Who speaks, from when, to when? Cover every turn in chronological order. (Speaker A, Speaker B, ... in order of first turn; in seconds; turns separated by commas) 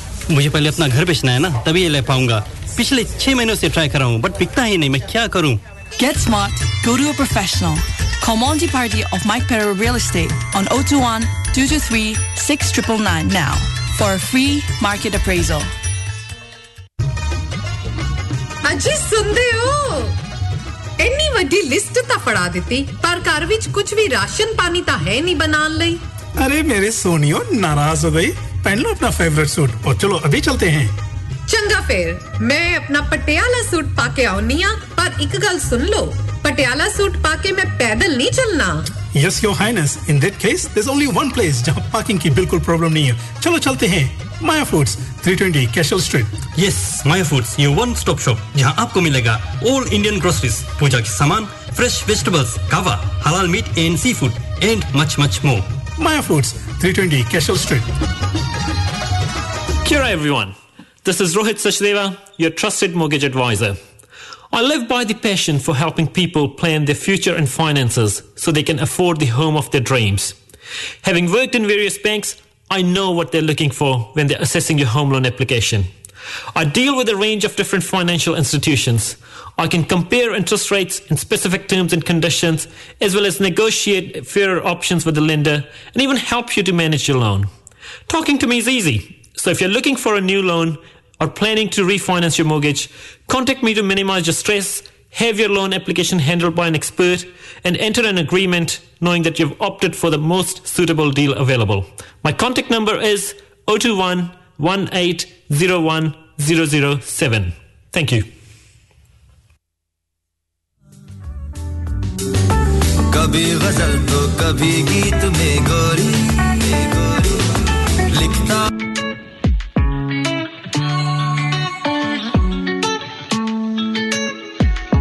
Speaker A: 0.3-5.6, Speaker B: 6.0-15.7, Speaker C: 18.6-20.2, Speaker C: 21.0-26.0, Speaker D: 26.4-30.9, Speaker C: 31.5-38.9, Speaker D: 39.1-46.5, Speaker A: 46.6-55.7, Speaker D: 56.0-57.9, Speaker E: 59.8-63.8, Speaker E: 64.5-70.4, Speaker E: 71.0-75.9, Speaker E: 76.5-87.5, Speaker E: 88.1-108.3, Speaker F: 113.1-117.2, Speaker F: 118.2-118.6